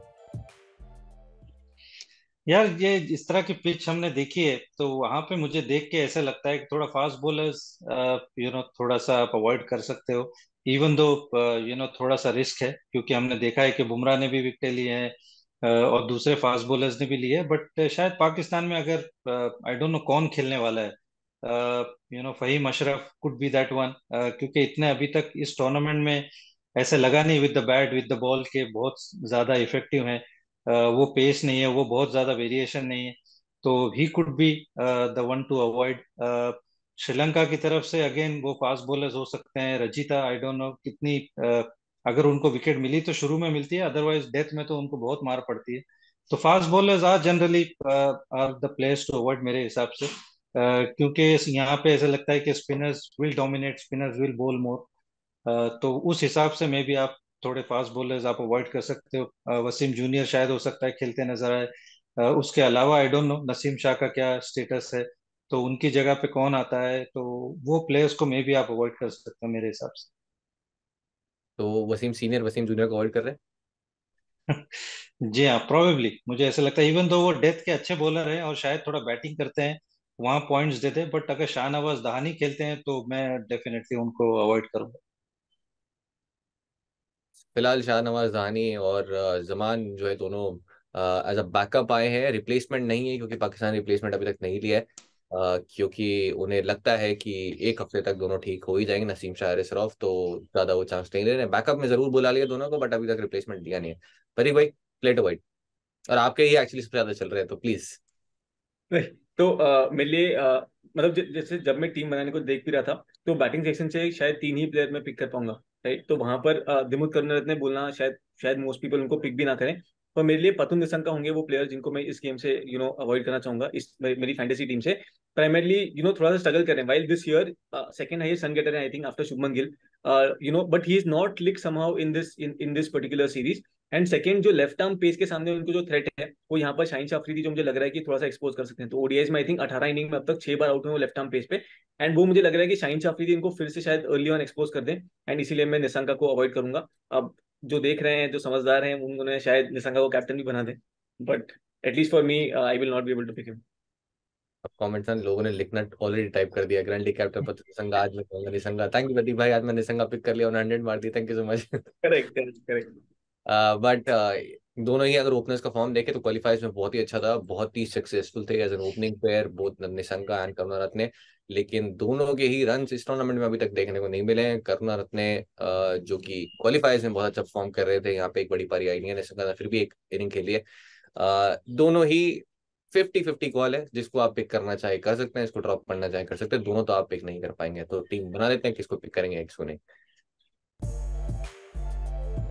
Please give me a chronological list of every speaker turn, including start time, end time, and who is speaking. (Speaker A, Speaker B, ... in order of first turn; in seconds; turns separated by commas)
Speaker A: 2.5-54.9, Speaker A: 55.5-70.1, Speaker B: 71.6-73.4, Speaker A: 74.5-85.0, Speaker B: 87.5-105.4, Speaker B: 106.1-108.0, Speaker C: 108.9-153.6, Speaker B: 154.6-161.9, Speaker C: 162.0-163.0, Speaker B: 163.4-180.6, Speaker B: 181.2-189.8